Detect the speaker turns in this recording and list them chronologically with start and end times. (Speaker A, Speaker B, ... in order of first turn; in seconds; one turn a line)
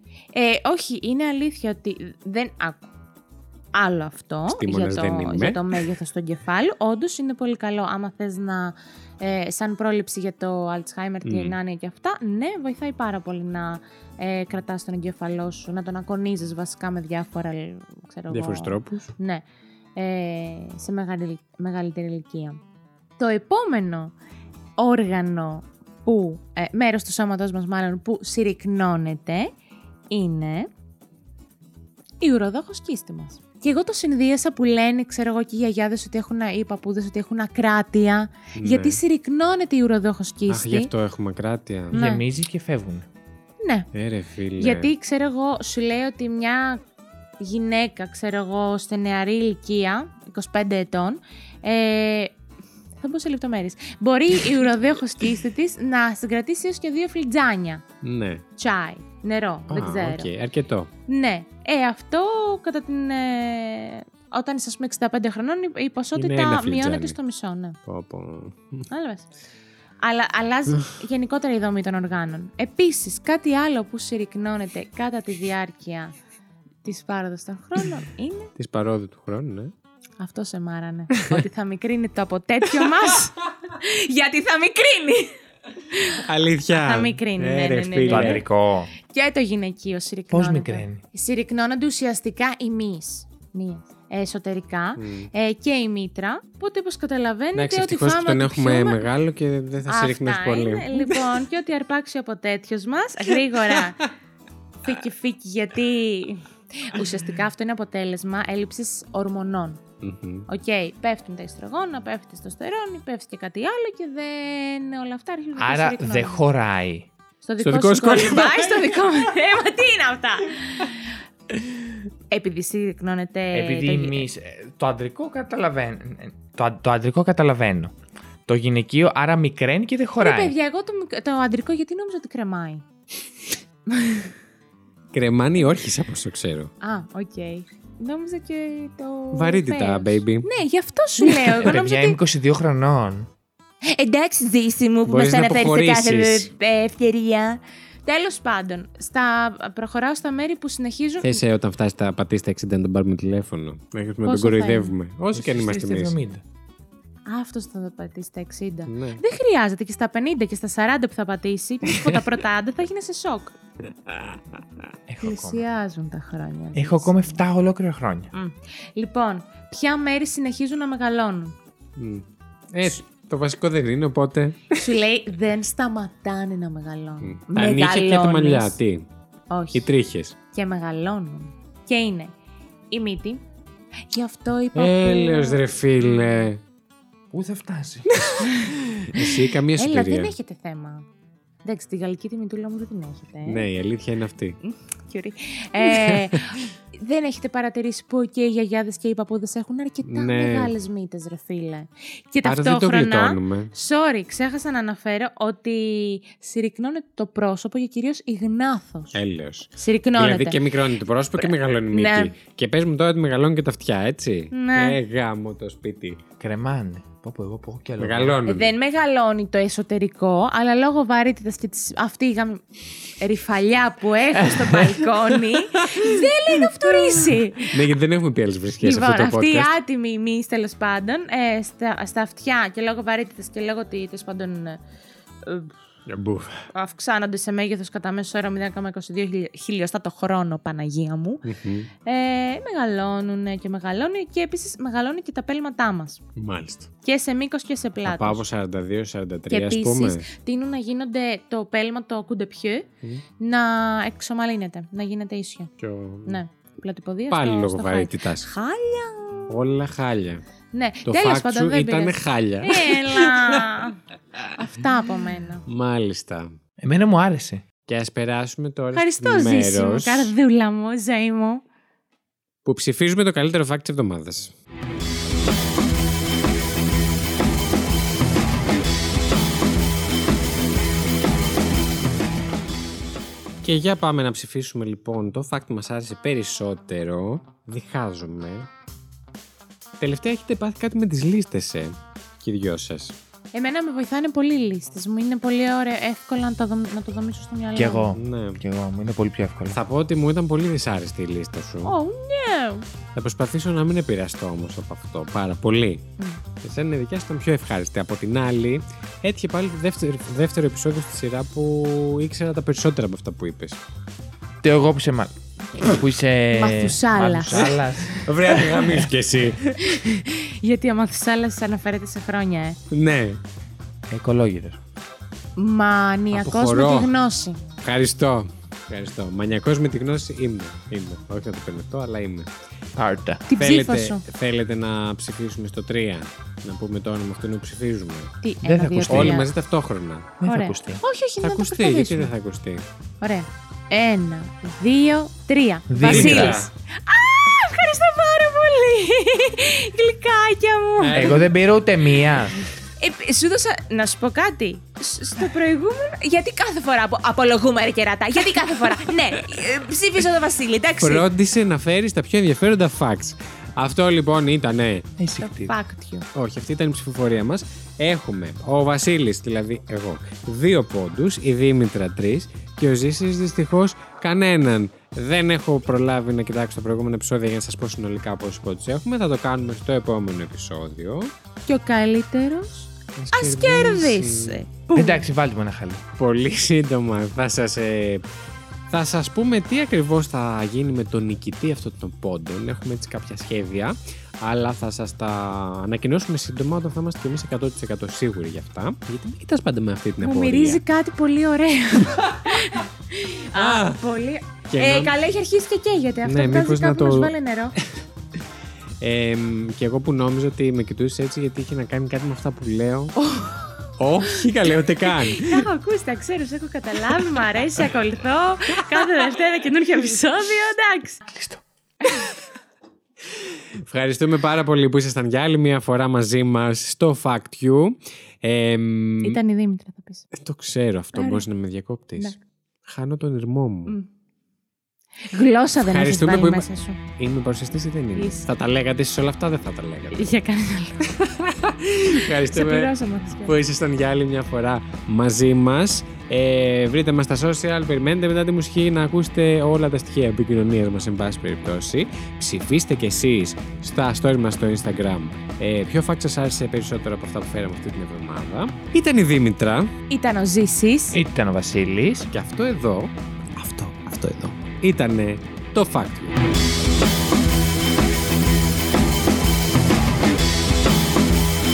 Speaker A: 0.3-2.9
Speaker A: 3.8-19.4
Speaker B: 4.5-5.8
Speaker B: 11.2-11.6
Speaker B: 18.3-19.1
Speaker A: 20.0-22.6
Speaker A: 23.2-24.1
Speaker A: 24.8-29.5
Speaker A: 30.1-30.7
Speaker A: 32.2-40.9
Speaker B: 38.6-39.0
Speaker B: 40.5-42.0
Speaker A: 41.9-42.2
Speaker C: 41.9-43.1
Speaker A: 43.6-43.9
Speaker B: 43.9-44.9
Speaker A: 44.6-46.8
Speaker A: 47.4-52.4
Speaker A: 53.0-57.8
Speaker B: 58.0-58.4
Speaker A: 58.6-60.3
Speaker B: 59.7-60.9
Speaker A: 61.1-67.8
Speaker B: 66.2-67.2
Speaker B: 67.9-68.9
Speaker A: 68.9-69.3
Speaker A: 70.0-76.1
Speaker A: 76.8-78.5
Speaker B: 78.6-79.7
Speaker A: 80.2-85.3
Speaker B: 81.1-81.4
Speaker A: 85.9-88.5
Speaker B: 86.1-88.4
Speaker C: 88.1-88.9
Speaker A: 89.0-99.1
Speaker C: 90.3-91.0
Speaker B: 95.0-95.3
Speaker B: 97.5-101.2
Speaker A: 99.9-104.0
Speaker B: 103.5-104.1
Speaker A: 104.8-109.8
Speaker B: 110.0-110.5
Speaker A: 110.5-116.4
Speaker C: 115.6-117.1
Speaker A: 117.4-121.2
Speaker B: 117.6-118.9
Speaker A: 122.3-124.3
Speaker C: 123.5-127.9
Speaker C: 128.5-130.6
Speaker A: 130.2-132.8
Speaker A: 133.9-134.3
Speaker B: 135.1-136.7
Speaker A: 136.8-142.2
Speaker B: 139.3-140.5
Speaker B: 141.2-141.7
Speaker C: 141.6-143.3
Speaker A: 143.8-151.4
Speaker B: 145.1-146.5
Speaker B: 151.2-156.2
Speaker A: 154.2-154.9
Speaker C: 155.3-156.4
Speaker A: 157.3-163.5
Speaker B: 158.9-159.2
Speaker B: 161.9-162.2
Speaker B: 164.1-164.4
Speaker C: 165.1-165.6
Speaker A: 165.2-167.4
Speaker C: 166.8-168.3
Speaker A: 168.3-171.6
Speaker B: 172.0-174.8
Speaker A: 174.8-178.8
Speaker B: 177.2-179.1
Speaker A: 179.5-179.9
Speaker B: 179.7-180.4
Speaker A: 180.5-182.3
Speaker A: 182.9-183.4
Speaker A: 184.1-186.4
Speaker B: 184.8-186.6
Speaker C: 187.3-188.1
Speaker B: 188.1-190.3
Speaker A: 188.4-191.1
Speaker A: 191.6-193.7
Speaker B: 193.4-194.6
Speaker A: 194.6-209.2
Speaker B: 195.8-196.6
Speaker B: 200.0-200.7
Speaker B: 202.4-203.7
Speaker B: 209.1-216.2
Speaker A: 209.8-210.6
Speaker A: 211.4-212.3
Speaker A: 214.5-215.0
Speaker C: 216.4-218.4
Speaker B: 218.0-218.7
Speaker A: 218.5-222.6
Speaker A: 223.2-227.9
Speaker C: 224.4-225.0
Speaker B: 225.3-229.7
Speaker A: 228.8-234.8
Speaker A: 235.4-235.7
Speaker B: 236.1-236.7
Speaker A: 236.7-241.4
Speaker B: 241.4-241.9
Speaker A: 242.1-246.2
Speaker B: 246.4-246.9
Speaker A: 247.0-248.4
Speaker B: 248.0-250.3
Speaker A: 249.5-252.9
Speaker A: 253.4-255.7
Speaker B: 255.8-256.4
Speaker A: 256.3-259.5
Speaker B: 257.3-258.5
Speaker B: 259.5-260.4
Speaker A: 260.7-264.0
Speaker B: 261.1-263.8
Speaker A: 264.6-265.6
Speaker B: 265.7-266.6
Speaker C: 266.8-267.6
Speaker B: 267.9-270.3
Speaker A: 268.9-271.6
Speaker B: 272.6-274.5
Speaker B: 283.6-288.7
Speaker B: 290.0-293.2
Speaker A: 293.5-298.1
Speaker C: 297.8-299.8
Speaker B: 298.1-298.6
Speaker B: 299.7-301.9
Speaker A: 301.9-302.9
Speaker B: 303.1-306.1
Speaker B: 306.6-313.8
Speaker C: 314.6-319.1
Speaker A: 316.5-318.8
Speaker B: 317.5-320.0
Speaker A: 319.8-322.8
Speaker B: 322.9-323.4
Speaker C: 324.1-324.8
Speaker A: 325.6-327.6
Speaker B: 326.3-327.1
Speaker B: 327.8-332.5
Speaker C: 333.0-333.4
Speaker A: 333.5-334.2
Speaker B: 333.6-338.3
Speaker A: 338.4-339.5
Speaker C: 338.6-339.4
Speaker B: 339.1-340.4
Speaker C: 340.4-341.0
Speaker A: 340.4-342.3
Speaker B: 341.4-342.9
Speaker A: 343.2-351.5
Speaker C: 345.9-346.7
Speaker B: 346.0-346.7
Speaker B: 351.0-351.5
Speaker C: 351.1-352.6
Speaker A: 353.0-361.3
Speaker B: 361.0-365.1
Speaker C: 365.2-365.7
Speaker A: 365.4-366.3
Speaker B: 366.3-381.3
Speaker A: 381.7-385.2
Speaker B: 383.2-384.6
Speaker C: 384.9-386.0
Speaker B: 386.2-388.2
Speaker B: 388.9-400.8
Speaker A: 400.2-407.8
Speaker B: 402.1-402.8
Speaker B: 403.5-404.0
Speaker B: 404.7-405.2
Speaker B: 406.2-407.3
Speaker B: 409.0-413.2
Speaker A: 413.2-421.2
Speaker B: 414.0-415.7
Speaker C: 421.3-421.6
Speaker A: 422.0-422.3
Speaker B: 423.8-429.4
Speaker A: 429.2-430.3
Speaker B: 430.3-434.0
Speaker A: 431.1-431.5
Speaker A: 435.3-437.0
Speaker B: 435.8-440.3
Speaker A: 438.2-438.5
Speaker A: 440.1-441.1
Speaker B: 441.1-442.9
Speaker A: 442.3-443.6
Speaker B: 443.4-459.9
Speaker A: 460.1-461.2
Speaker C: 461.1-462.3
Speaker B: 462.3-466.3